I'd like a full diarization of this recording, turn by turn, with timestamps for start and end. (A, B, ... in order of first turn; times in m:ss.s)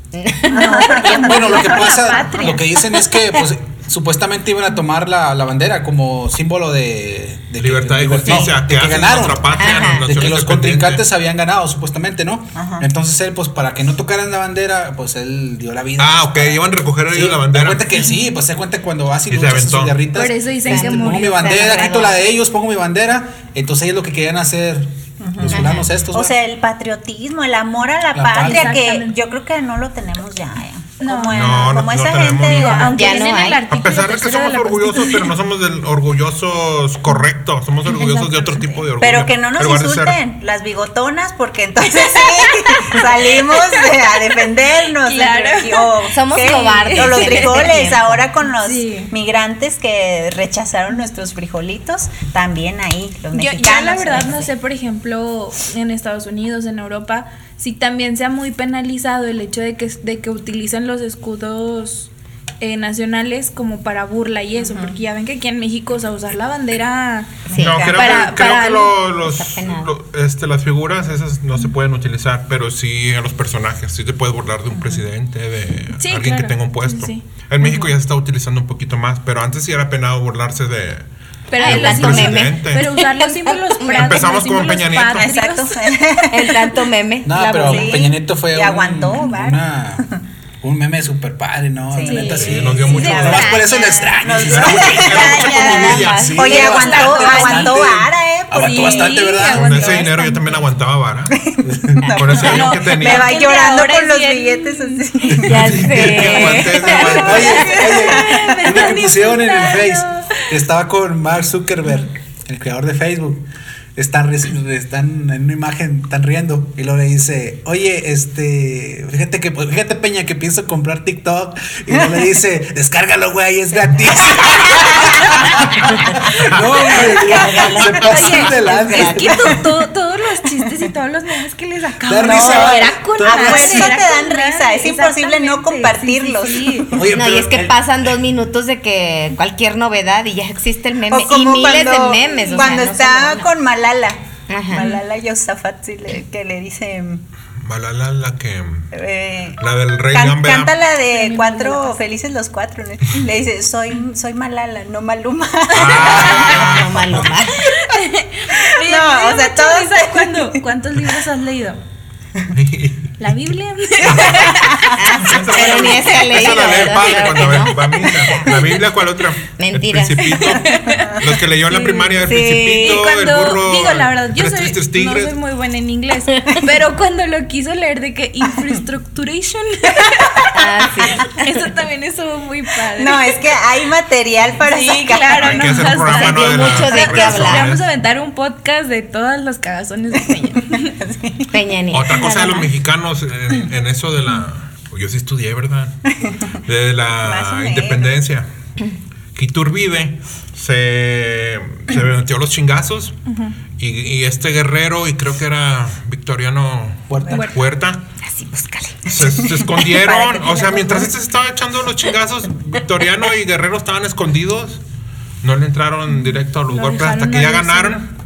0:00.2-0:00.8 A
0:00.5-0:01.8 B
0:00.5-0:02.8 C
0:00.8-0:26.4 D
0:07.6-0:11.0 E
0:09.6-0:10.1 A
0:12.6-0:12.8 B
0:16.0-0:18.0 E
0:19.3-0:20.0 E
0:20.1-0:22.0 C
0:20.7-0:22.2 A
0:25.2-0:33.1 B
0:25.5-0:25.9 A
0:28.1-0:28.8 D
0:28.4-0:29.2 C
0:31.0-0:31.7 C
0:31.3-0:33.0 E
0:32.4-0:35.3 C
0:32.9-0:33.6 A
0:33.7-0:40.2 E
0:38.0-0:38.8 C
0:39.0-0:54.5 B
0:45.0-0:47.8 C
0:46.1-0:48.2 A
0:48.5-0:49.1 C
0:53.3-1:07.3 C
1:04.6-1:05.0 B
1:07.5-1:08.2 B
1:07.5-1:07.9 A
1:07.6-1:21.1 E
1:07.9-1:09.0 C
1:09.2-1:09.9 A
1:14.7-1:15.0 B
1:16.0-1:17.2 C
1:21.5-1:25.8 C
1:21.6-1:22.9 E
1:21.6-1:24.3 A
1:23.9-1:25.3 E
1:25.2-1:26.8 B
1:26.3-1:28.1 A
1:27.2-1:30.1 D
1:27.6-1:30.1 B
1:30.6-1:40.1 D
1:31.9-1:39.3 B
1:32.0-1:34.2 C
1:32.4-1:33.6 E
1:34.4-1:36.4 E
1:35.1-1:36.7 A
1:35.4-1:35.9 C
1:36.4-1:37.9 C
1:38.6-1:40.5 C
1:39.5-1:41.3 E
1:41.4-1:48.8 B
1:41.6-1:42.0 D
1:42.1-1:43.4 E
1:42.4-1:45.0 C
1:45.4-1:47.5 A
1:45.5-1:47.6 E
1:47.2-1:53.4 D
1:47.6-1:50.4 C
1:54.0-2:09.6 D
2:07.0-2:09.3 A
2:08.0-2:16.9 C
2:12.1-2:14.0 D
2:12.2-2:17.0 B
2:16.9-2:17.9 D
2:17.1-2:23.5 A
2:21.1-2:27.2 B
2:22.3-2:22.7 C
2:24.5-2:24.9 A
2:27.6-2:28.9 E
2:28.9-2:36.8 B
2:29.6-2:30.7 E
2:31.1-2:32.0 C
2:35.7-2:37.4 E
2:36.0-2:37.6 A
2:37.6-2:41.8 C
2:38.6-2:40.6 B
2:42.5-2:43.1 E
2:43.2-2:44.9 C
2:44.0-2:44.6 E
2:45.0-2:48.8 A
2:45.2-2:55.4 E
2:49.5-2:50.6 A
2:50.4-2:52.2 C
2:52.2-2:53.0 A
2:52.8-3:00.5 C
3:00.4-3:01.2 B
3:00.5-3:01.3 A
3:01.3-3:03.4 C
3:02.9-3:05.9 B
3:04.6-3:10.9 C
3:05.4-3:07.9 E
3:06.1-3:07.7 A
3:10.8-3:11.5 B
3:11.5-3:12.7 A
3:11.9-3:16.0 E
3:16.7-3:18.5 E
3:17.2-3:18.2 B
3:19.4-3:23.2 E
3:23.3-3:23.5 C
3:23.8-3:28.0 E
3:27.1-3:27.5 D
3:27.3-3:27.6 C
3:28.2-3:29.1 A
3:29.1-3:34.8 E
3:29.2-3:31.1 B
3:35.4-3:38.0 E
3:36.1-3:38.1 C